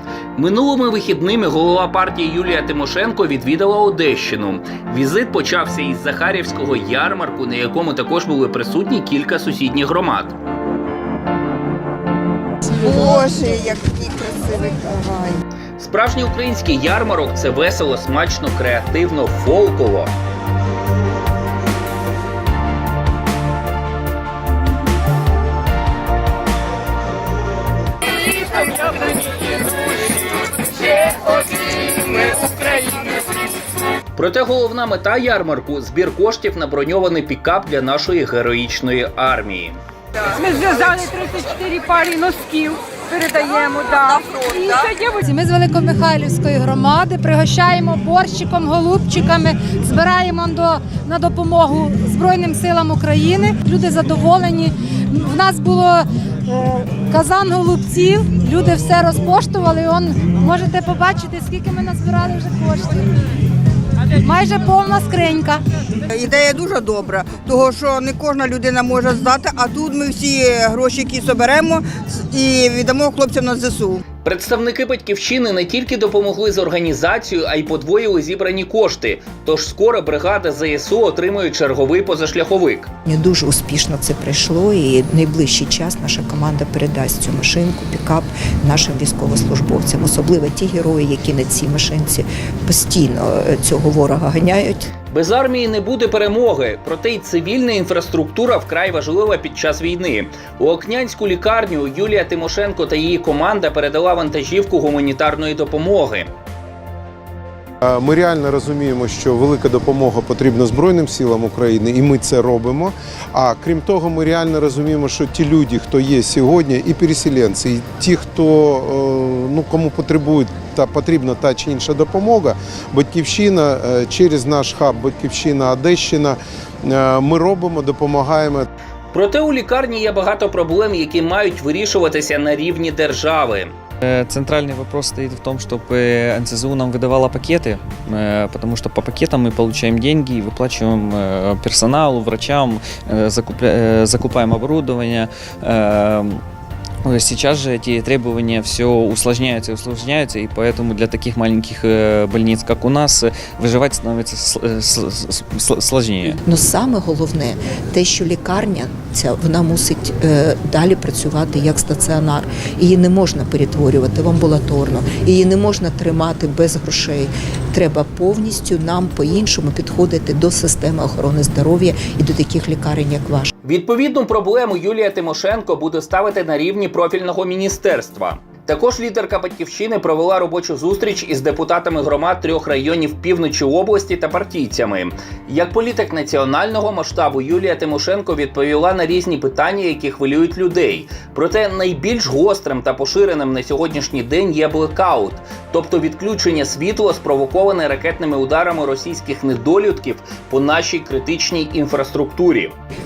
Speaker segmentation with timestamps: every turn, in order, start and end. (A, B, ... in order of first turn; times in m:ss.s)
0:00.4-0:10.4 A
0:12.7-0:15.4 B
0:15.8-0:20.1 A
0:34.2-0:39.8 A
0:40.3-0:45.2 C
0:45.2-1:03.0 D
1:04.2-1:05.6 D
1:06.1-1:14.0 B
1:14.2-1:22.9 A
1:23.0-1:34.9 E
1:35.1-1:46.3 A
1:47.9-2:08.7 F
2:09.1-2:13.7 A
2:14.0-2:26.4 G
2:27.0-2:36.4 G
2:36.4-2:53.5 E
2:53.6-3:22.7 A